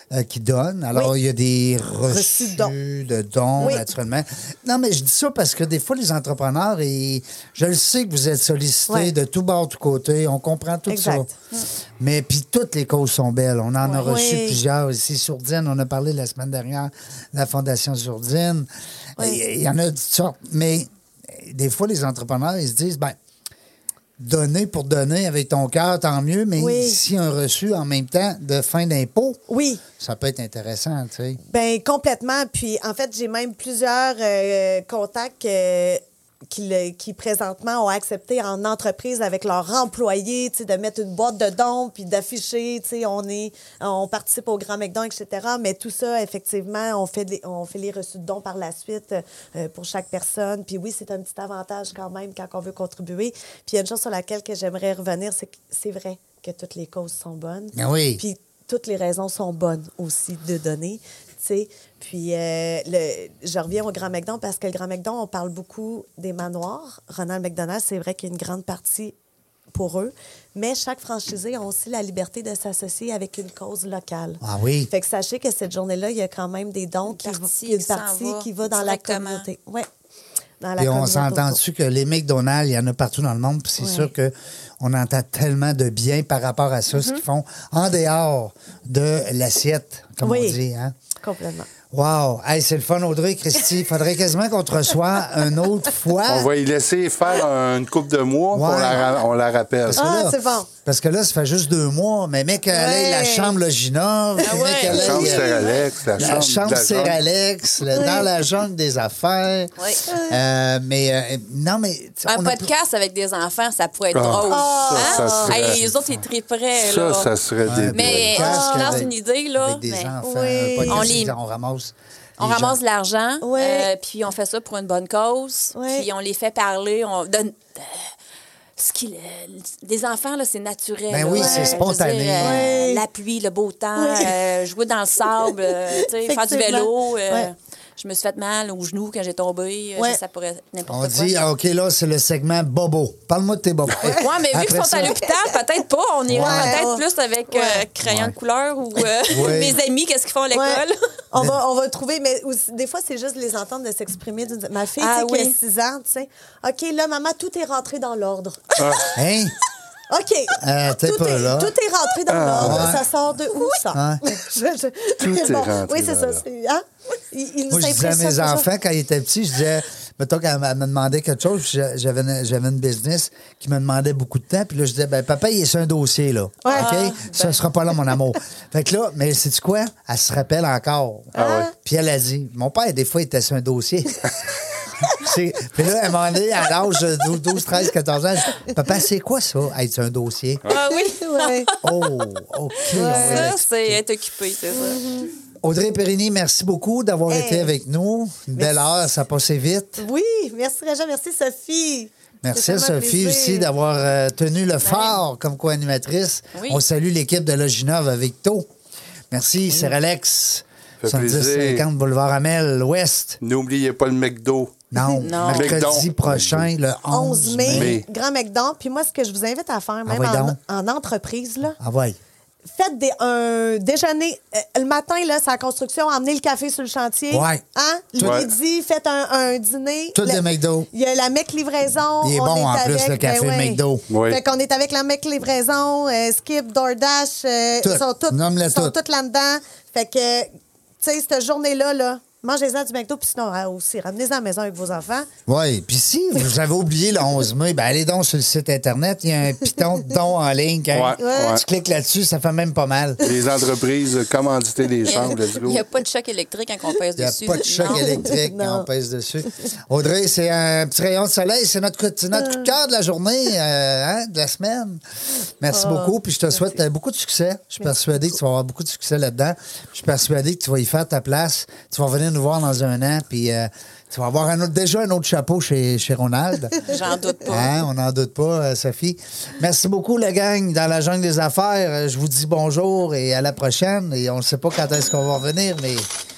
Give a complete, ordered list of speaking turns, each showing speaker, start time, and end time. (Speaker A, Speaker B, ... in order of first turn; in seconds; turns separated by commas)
Speaker A: 0.1-11.3, Speaker B: 2.0-2.8, Speaker B: 3.6-3.8, Speaker B: 8.9-9.1, Speaker B: 10.9-11.3, Speaker A: 12.0-23.2, Speaker B: 13.8-14.6, Speaker A: 24.2-29.4, Speaker B: 26.6-27.0, Speaker B: 29.5-29.8, Speaker A: 29.9-31.4, Speaker B: 31.5-69.2, Speaker A: 57.8-58.2, Speaker B: 69.7-79.9, Speaker A: 74.4-74.9, Speaker C: 77.1-79.5, Speaker B: 80.6-81.6, Speaker A: 80.8-91.0, Speaker B: 83.8-84.1, Speaker C: 86.9-87.2, Speaker B: 90.2-90.6, Speaker B: 91.2-91.7, Speaker A: 91.9-96.5, Speaker D: 96.3-100.1, Speaker A: 98.5-99.3, Speaker A: 99.9-105.6, Speaker B: 99.9-100.7, Speaker B: 102.7-103.6, Speaker C: 104.4-105.8, Speaker D: 104.9-107.2, Speaker B: 105.2-105.7, Speaker A: 106.2-112.7, Speaker B: 107.9-108.3, Speaker B: 110.1-110.4, Speaker C: 112.3-117.3, Speaker D: 114.1-115.8, Speaker B: 114.5-115.7, Speaker D: 116.8-118.4, Speaker A: 117.7-122.8, Speaker C: 117.9-120.1, Speaker B: 118.3-119.1, Speaker B: 120.2-121.2, Speaker C: 120.9-121.3, Speaker C: 122.4-128.1, Speaker B: 123.4-123.9, Speaker B: 125.8-126.1, Speaker C: 128.8-141.4, Speaker A: 131.1-132.7, Speaker B: 131.3-131.8, Speaker B: 132.4-133.0, Speaker B: 134.0-134.4, Speaker B: 135.3-137.5, Speaker A: 140.9-145.2, Speaker C: 144.1-150.9, Speaker B: 145.2-145.6, Speaker A: 146.3-146.8, Speaker B: 146.3-147.8, Speaker A: 148.0-148.3, Speaker A: 149.3-149.8, Speaker B: 150.5-158.9, Speaker C: 155.0-155.6, Speaker D: 158.8-159.2, Speaker A: 159.1-159.6, Speaker B: 160.1-168.7, Speaker A: 160.6-161.8, Speaker D: 162.3-163.0, Speaker A: 162.6-163.0, Speaker A: 163.9-164.2, Speaker D: 165.2-166.4, Speaker A: 167.7-184.3, Speaker B: 176.6-176.9, Speaker C: 176.7-177.6, Speaker B: 181.3-181.7, Speaker D: 181.4-181.7, Speaker A: 185.0-190.6, Speaker C: 190.7-191.9, Speaker B: 190.7-191.8, Speaker A: 191.8-194.0, Speaker C: 192.8-195.1, Speaker B: 192.9-193.5, Speaker B: 194.7-195.3, Speaker A: 195.6-200.1, Speaker B: 197.3-197.7, Speaker B: 198.6-198.8, Speaker B: 200.0-203.7, Speaker A: 202.4-208.7, Speaker C: 204.8-205.2, Speaker C: 206.6-206.8, Speaker A: 209.3-213.4, Speaker D: 211.0-211.8, Speaker D: 213.4-214.8, Speaker A: 214.9-218.0, Speaker B: 215.0-215.2, Speaker C: 215.2-215.8, Speaker D: 215.4-216.7, Speaker B: 217.1-221.8, Speaker D: 217.7-218.1, Speaker A: 220.1-220.6, Speaker A: 221.8-222.2, Speaker B: 222.7-240.5, Speaker A: 227.3-227.6, Speaker A: 228.2-228.4, Speaker D: 228.2-228.5, Speaker A: 230.2-230.9, Speaker A: 232.2-234.1, Speaker D: 234.1-234.4, Speaker A: 237.8-238.9, Speaker B: 241.0-245.3, Speaker A: 245.5-253.2, Speaker D: 250.9-251.6, Speaker B: 251.2-251.6, Speaker D: 253.2-255.8, Speaker C: 255.0-258.2, Speaker A: 257.2-265.0, Speaker B: 257.9-258.9, Speaker B: 262.4-262.7, Speaker A: 265.6-277.0, Speaker B: 265.7-266.6, Speaker C: 276.8-277.8, Speaker A: 277.5-286.1